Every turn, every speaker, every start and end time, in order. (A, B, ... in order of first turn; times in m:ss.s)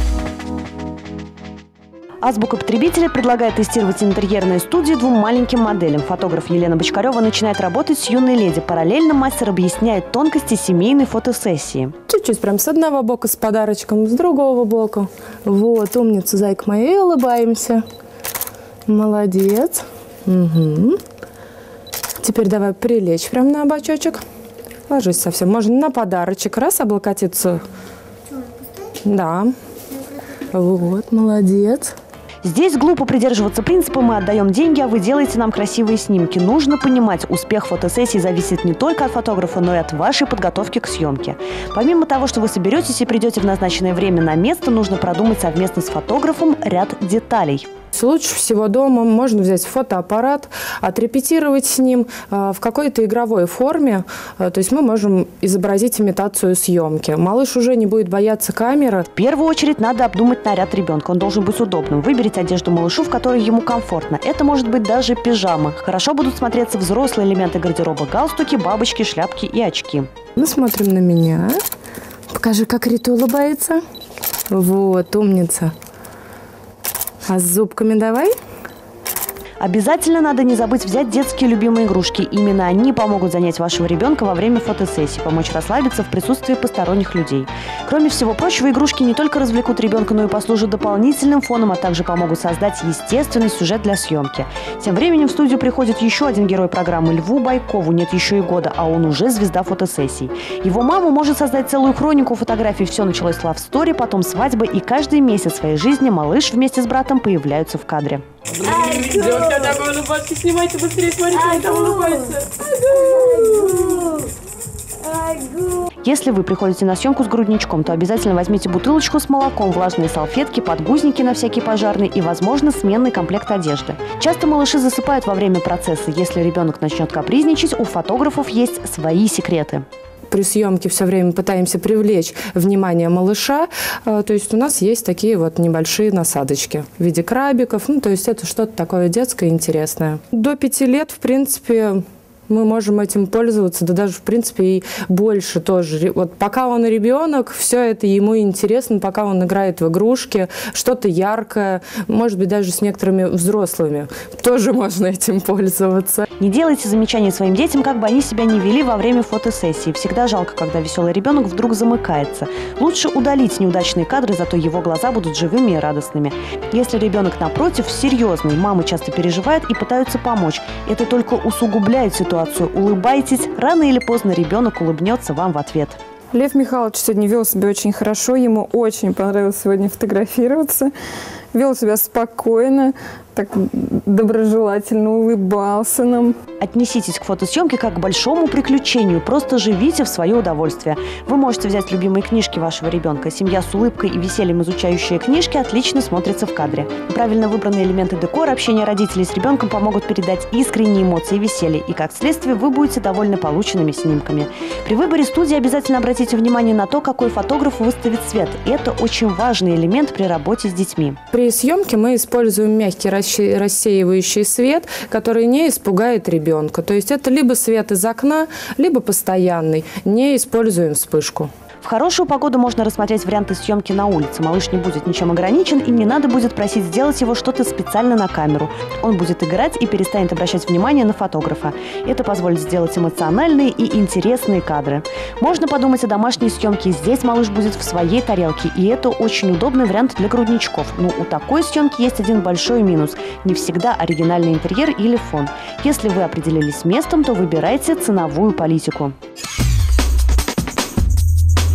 0:02.2-0:11.9 A
0:12.1-0:17.8 B
0:18.9-0:21.0 B
0:22.2-0:24.2 B
0:24.9-0:27.6 B
0:29.0-0:29.5 B
0:30.5-0:32.0 B
0:32.4-0:47.7 A
0:47.9-0:59.1 B
0:59.1-1:10.1 A
1:10.4-1:11.6 B
1:12.3-1:13.8 B
1:14.5-1:15.7 B
1:17.2-1:18.3 B
1:19.6-1:48.2 A
1:48.6-1:54.2 C
1:56.0-2:09.9 A
2:10.3-2:36.2 B
2:36.4-2:56.0 A
2:56.3-3:00.9 D
3:01.5-3:06.4 D
3:06.6-3:31.2 A
3:31.3-3:41.5 B
3:41.8-4:09.1 A